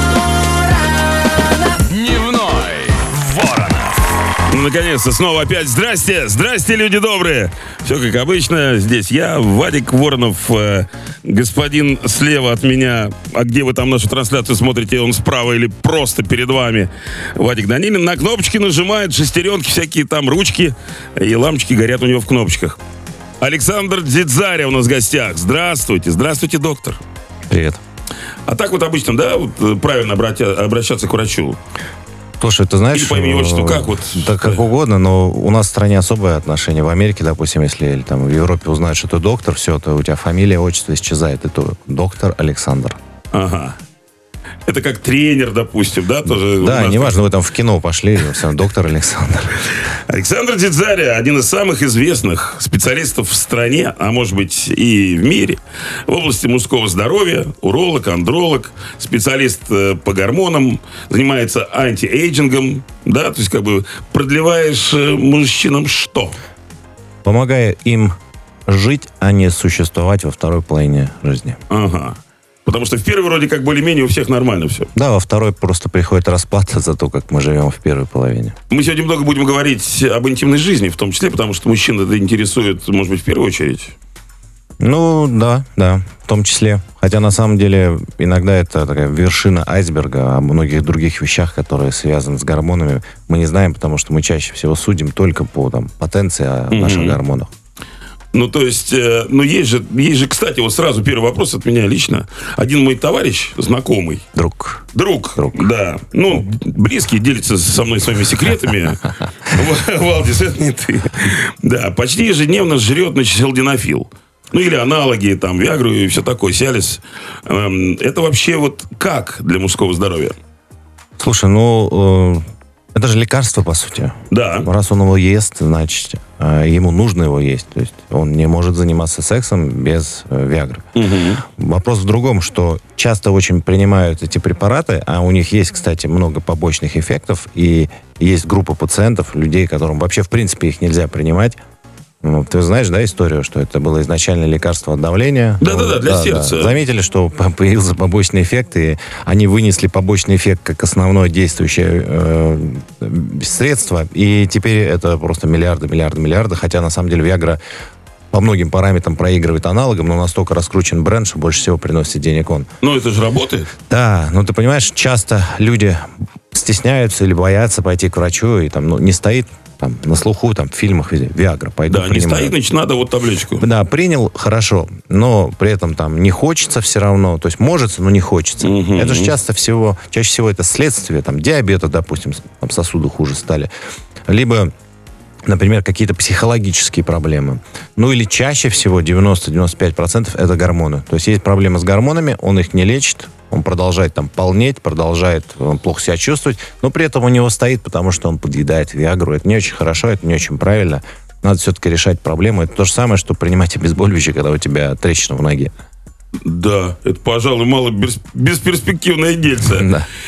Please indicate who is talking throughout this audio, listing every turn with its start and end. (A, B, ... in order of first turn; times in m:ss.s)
0:01.8-0:04.0 A
0:04.5-0:22.8 B
0:23.4-0:27.0 B
0:27.5-0:27.8 C
0:28.4-0:31.6 B
0:32.4-0:43.0 C
0:32.9-0:34.6 B
0:43.3-0:43.8 B
0:44.7-0:47.2 B
0:46.4-0:49.6 C
0:49.8-1:06.3 B
1:07.2-1:08.1 C
1:08.7-1:11.6 C
1:11.7-1:14.9 B
1:14.9-1:18.6 C
1:18.7-1:23.9 B
1:24.8-1:37.5 C
1:36.7-1:37.2 B
1:38.3-1:44.2 B
1:44.3-1:45.7 C
1:44.9-2:00.4 B
2:01.2-2:10.9 C
2:04.3-2:04.7 B
2:10.9-2:11.4 B
2:11.5-2:21.6 C
2:22.2-2:37.6 C
2:25.6-2:26.8 B
2:38.3-2:42.7 C
2:42.8-2:43.7 B
2:43.9-2:52.5 C
2:51.9-2:53.6 B
2:53.6-3:03.7 C
2:58.6-2:59.4 B
3:04.3-3:04.7 C
3:05.4-3:25.7 C
3:26.4-3:29.9 B
3:29.7-3:30.0 C